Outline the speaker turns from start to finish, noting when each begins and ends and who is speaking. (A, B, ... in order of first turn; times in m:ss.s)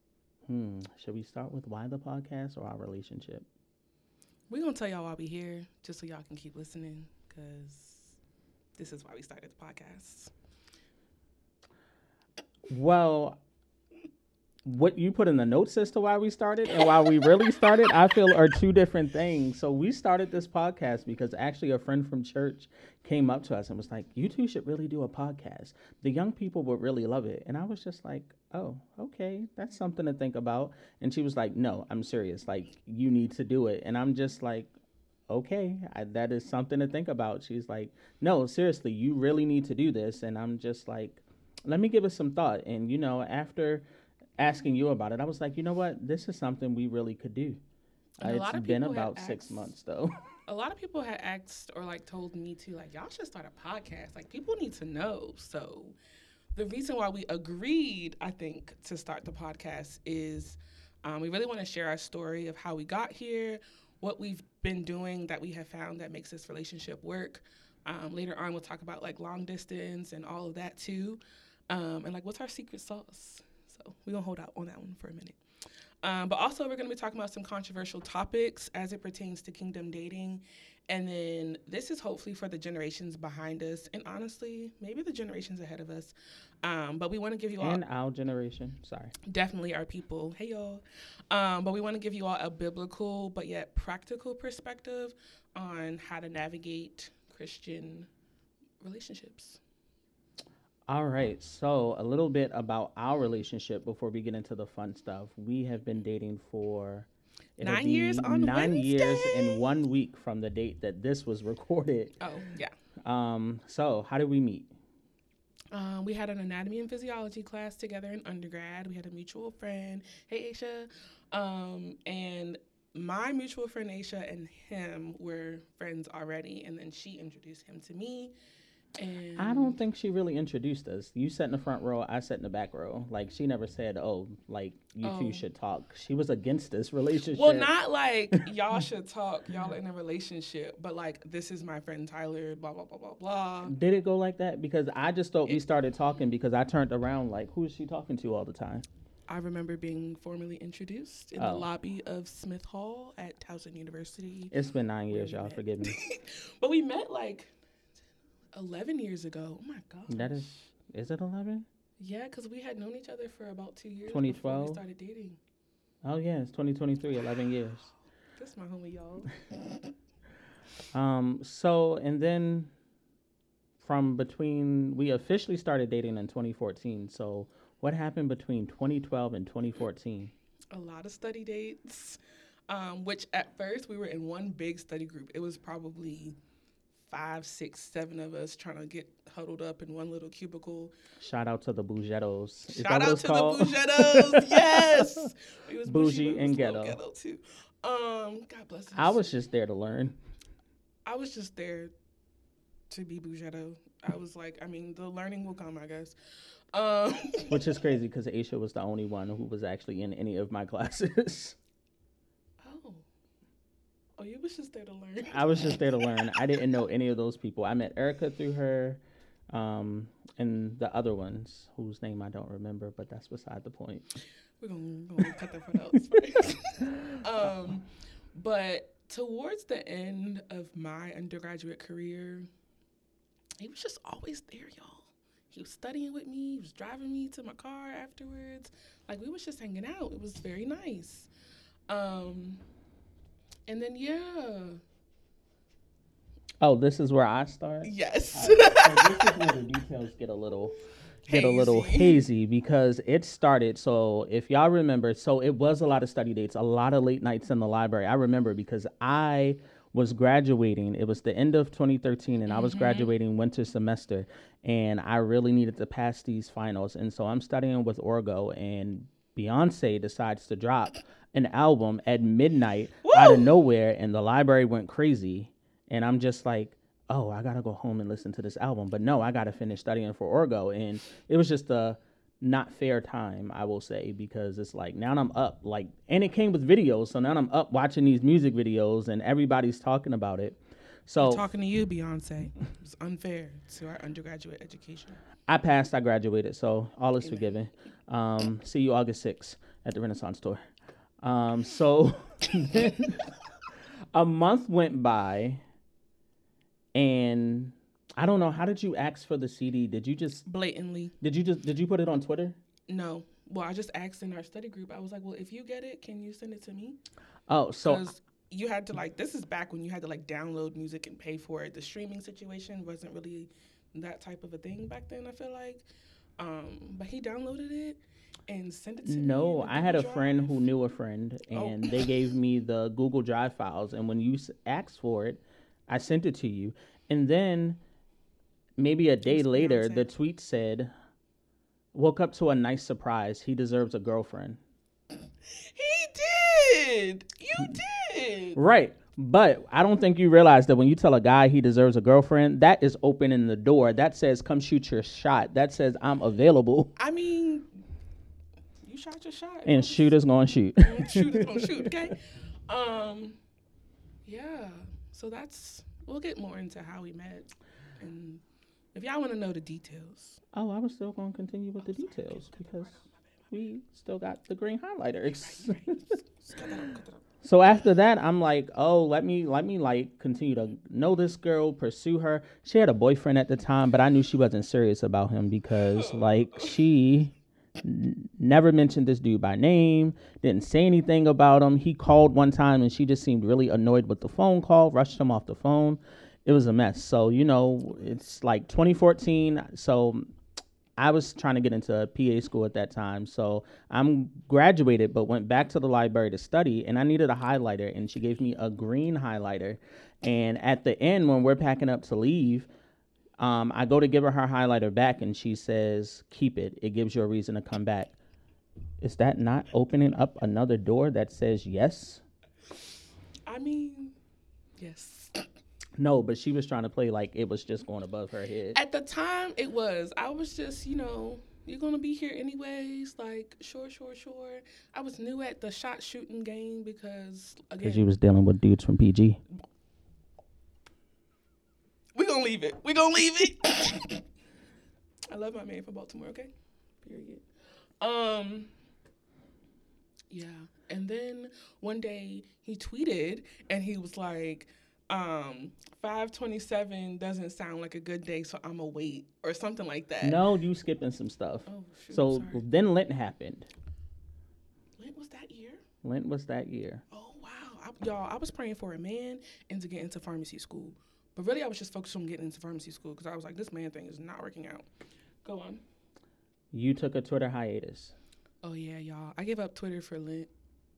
0:00.5-0:03.5 A
0:04.5-0:08.2 B
0:08.8-0:10.3 B
0:12.7-0:13.4 A
0:14.6-0:34.7 A
0:35.3-0:43.8 A
0:44.4-0:47.6 A
0:48.2-0:49.7 B
0:48.2-0:50.2 A
0:50.5-0:56.0 B
0:56.6-1:15.4 B
1:16.0-1:27.8 B
1:27.6-1:29.1 A
1:29.2-1:38.1 B
1:38.8-1:39.6 B
1:40.9-1:47.1 A
1:47.6-1:52.2 A
1:47.6-1:49.6 B
1:52.2-1:52.7 B
1:53.0-1:54.7 A
1:55.7-2:08.3 B
2:09.0-2:09.8 B
2:09.4-2:17.7 A
2:15.0-2:15.4 B
2:17.3-2:23.7 B
2:23.7-2:28.8 A
2:29.3-2:34.6 B
2:31.4-2:31.7 A
2:34.5-2:36.0 A
2:35.1-2:37.5 B
2:38.5-2:40.7 B
2:40.1-2:41.7 A
2:42.0-2:45.4 B
2:44.1-2:44.8 A
2:46.0-2:47.9 A
2:48.4-2:49.4 B
2:50.9-2:52.7 A
2:53.8-3:00.3 A
3:00.7-3:06.4 B
3:07.1-3:10.9 B
3:11.2-3:15.3 A
3:12.7-3:19.3 B
3:15.9-3:17.0 A
3:18.9-3:20.2 A
3:21.1-3:21.9 B
3:22.9-3:26.1 B
3:26.7-3:27.8 B
3:27.5-3:31.6 A
3:32.6-3:33.0 B
3:34.2-3:36.4 B
3:35.3-3:44.0 A
3:44.6-3:52.5 B
3:53.6-4:01.3 B
4:01.9-4:02.6 B
4:03.7-4:04.8 B
4:06.6-4:10.8 A
4:07.8-4:09.5 B
4:11.3-4:51.5 A
4:11.3-4:12.2 B
4:22.5-4:23.1 B
4:33.0-4:33.5 B
4:51.2-4:55.2 B
4:55.5-5:00.6 A
5:01.2-5:03.3 A
5:04.1-5:05.6 A
5:06.9-5:10.4 A
5:10.4-5:11.1 B
5:11.2-5:12.6 A
5:12.9-5:17.0 B
5:17.5-5:18.1 A
5:17.8-5:25.8 B
5:26.4-5:30.6 B
5:29.0-5:37.8 A
5:31.5-5:32.1 B
5:38.8-5:40.9 A
5:39.2-5:40.1 B
5:41.9-5:44.6 A
5:45.5-5:48.6 B
5:48.6-5:56.9 A
5:57.0-5:57.7 B
5:58.8-6:00.1 B
5:59.6-6:01.9 A
6:00.8-6:03.4 B
6:04.2-6:08.4 B
6:08.9-6:10.4 B
6:10.5-6:12.9 A
6:11.8-6:13.1 B
6:13.5-6:15.9 A
6:15.4-6:17.2 B
6:17.4-6:40.3 A
6:25.9-6:26.7 B
6:41.0-6:52.7 A
6:53.4-6:58.1 A
6:59.0-7:02.2 A
7:03.5-7:04.1 B
7:04.8-7:05.4 B
7:06.0-7:08.8 A
7:08.7-7:18.1 B
7:17.8-7:19.4 A
7:22.1-7:24.2 B
7:25.3-7:26.5 B
7:27.0-7:27.4 B
7:28.0-7:28.7 B
7:30.3-7:40.4 B
7:40.2-7:43.7 A
7:41.6-7:42.6 B
7:45.0-7:45.8 B
7:46.0-7:47.0 A
7:47.1-7:54.9 B
7:55.4-7:55.8 B
7:56.7-7:58.1 A
7:58.6-8:00.5 B